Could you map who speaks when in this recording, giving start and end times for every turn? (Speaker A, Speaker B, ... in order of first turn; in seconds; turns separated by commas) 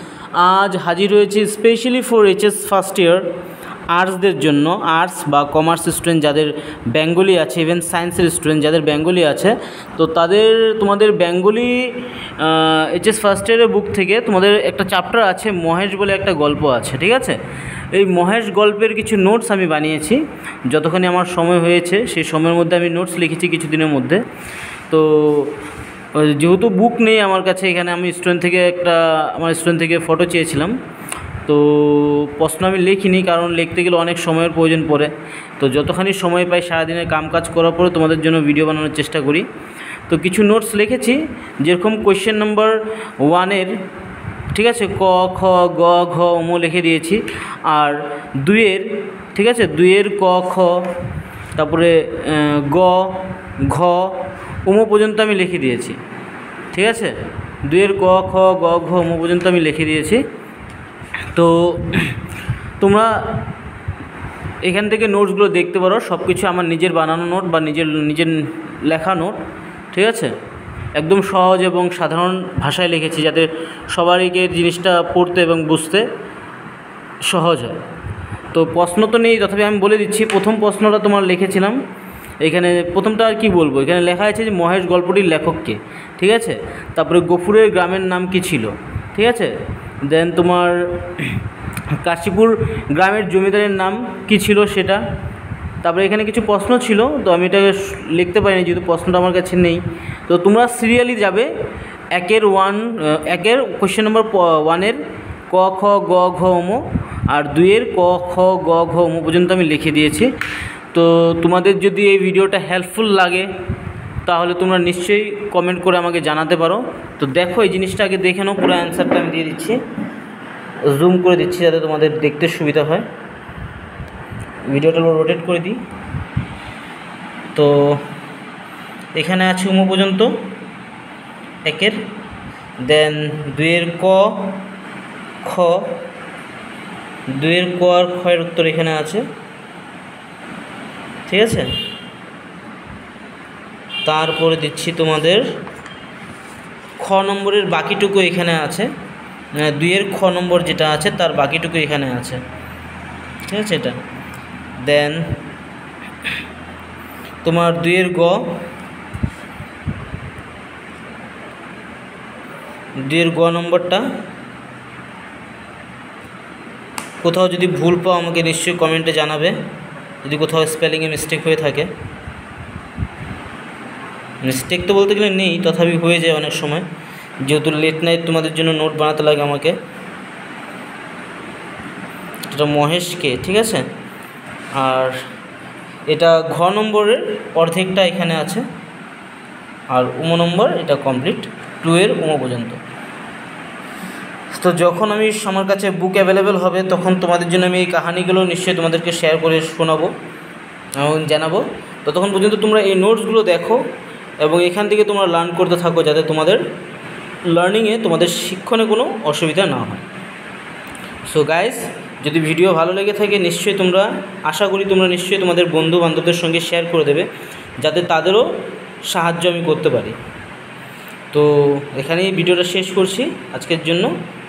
Speaker A: 0.3-3.2, Speaker A: 3.9-17.4, Speaker A: 17.9-24.2, Speaker A: 24.9-25.5, Speaker A: 26.1-30.8, Speaker A: 31.4-39.5, Speaker A: 40.1-43.8, Speaker A: 44.5-50.9, Speaker A: 51.5-56.0, Speaker A: 56.7-57.1, Speaker A: 57.6-60.2, Speaker A: 61.3-62.2, Speaker A: 62.8-63.4, Speaker A: 64.6-69.4, Speaker A: 69.9-70.3, Speaker A: 71.0-76.0, Speaker A: 77.2-77.8, Speaker A: 78.5-81.8, Speaker A: 82.4-89.5, Speaker A: 90.0-91.4, Speaker A: 91.9-95.0, Speaker A: 95.8-101.5, Speaker A: 102.1-110.3, Speaker A: 110.9-113.5, Speaker A: 114.2-119.8, Speaker A: 120.8-123.0, Speaker A: 124.7-125.8, Speaker A: 127.5-128.0, Speaker A: 129.2-130.4, Speaker A: 131.6-132.0, Speaker A: 132.8-134.6, Speaker A: 135.4-136.0, Speaker A: 137.3-139.2, Speaker A: 141.3-141.7, Speaker A: 144.0-145.5, Speaker A: 147.0-148.9, Speaker A: 149.5-152.4, Speaker A: 153.4-154.0, Speaker A: 154.8-155.4, Speaker A: 157.4-158.6, Speaker A: 163.0-164.1, Speaker A: 167.2-169.6, Speaker A: 170.2-171.9, Speaker A: 174.4-176.9, Speaker A: 177.4-179.8, Speaker A: 182.5-183.9, Speaker A: 184.8-185.2, Speaker A: 186.1-188.7, Speaker A: 189.9-192.8, Speaker A: 194.5-200.1, Speaker A: 200.9-203.8, Speaker A: 204.4-206.6, Speaker A: 207.5-210.0, Speaker A: 211.3-217.3, Speaker A: 217.8-218.5, Speaker A: 219.1-220.2, Speaker A: 221.3-224.1